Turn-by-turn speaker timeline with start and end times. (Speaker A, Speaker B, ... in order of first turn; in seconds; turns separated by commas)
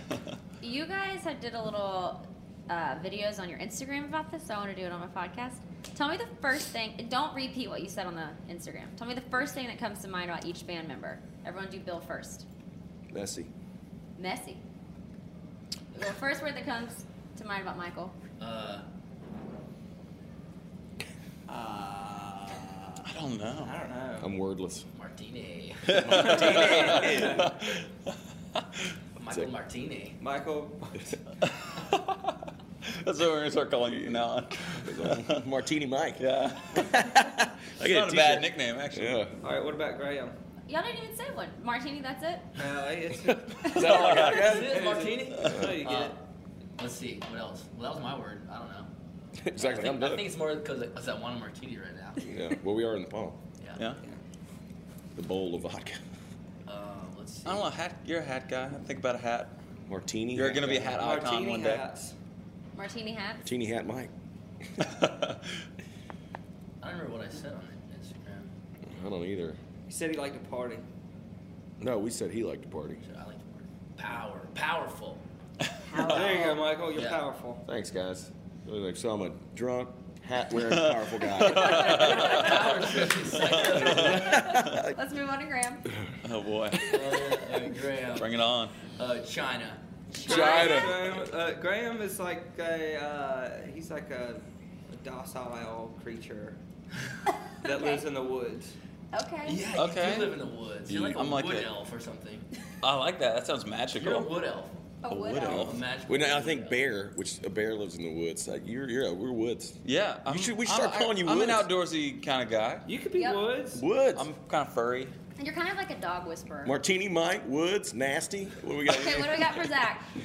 Speaker A: 0.6-12.4, Speaker B: 13.1-13.5, Speaker A: 14.2-14.6, Speaker A: 15.9-18.1, Speaker C: 18.4-18.9, Speaker C: 21.6-22.4, Speaker D: 23.1-23.8, Speaker E: 23.6-24.3, Speaker B: 24.2-24.9, Speaker C: 24.9-27.0, Speaker B: 25.9-27.6, Speaker D: 25.9-27.9, Speaker E: 26.2-27.5, Speaker C: 29.2-30.2, Speaker E: 30.2-30.9, Speaker D: 31.4-35.4, Speaker B: 34.0-39.4, Speaker D: 36.2-39.2, Speaker E: 39.4-40.3, Speaker A: 40.7-42.5, Speaker E: 42.6-46.1, Speaker B: 43.3-44.8, Speaker D: 43.7-44.6, Speaker C: 44.3-46.2, Speaker B: 45.5-45.9, Speaker C: 46.8-48.9, Speaker B: 49.4-50.3, Speaker C: 49.5-52.3, Speaker B: 52.2-53.4, Speaker B: 55.1-56.0, Speaker C: 56.7-57.7, Speaker D: 57.5-59.5, Speaker B: 59.9-61.0, Speaker D: 60.3-61.8, Speaker E: 61.0-62.1, Speaker A: 62.8-63.5, Speaker B: 63.4-64.1, Speaker B: 64.6-65.0, Speaker D: 64.8-65.4, Speaker C: 66.8-68.5, Speaker B: 68.8-69.6, Speaker E: 69.9-70.8, Speaker B: 71.8-73.0, Speaker C: 73.0-75.2, Speaker A: 75.9-76.7, Speaker E: 76.0-77.6, Speaker C: 76.9-77.2, Speaker B: 77.7-82.5, Speaker D: 80.7-82.6, Speaker A: 81.6-82.1, Speaker C: 81.9-84.4, Speaker B: 83.4-84.9, Speaker D: 83.5-84.7, Speaker A: 84.1-85.9, Speaker D: 86.2-87.1, Speaker C: 86.9-89.8, Speaker D: 88.2-88.8, Speaker A: 90.2-91.1, Speaker E: 90.2-96.6, Speaker B: 90.2-91.1, Speaker E: 97.6-98.7, Speaker A: 97.6-98.0, Speaker A: 99.1-99.7, Speaker C: 99.4-102.5, Speaker D: 99.8-100.3, Speaker B: 100.9-101.2, Speaker D: 100.9-101.7, Speaker D: 102.8-104.3, Speaker C: 104.0-104.8, Speaker A: 105.0-105.8, Speaker B: 105.1-111.7, Speaker D: 105.2-105.8, Speaker C: 105.5-106.8, Speaker D: 109.8-112.9, Speaker E: 112.9-113.8, Speaker A: 113.2-113.4, Speaker B: 113.7-114.3, Speaker D: 114.2-115.1, Speaker A: 115.4-116.8, Speaker B: 116.7-119.7, Speaker A: 118.9-120.1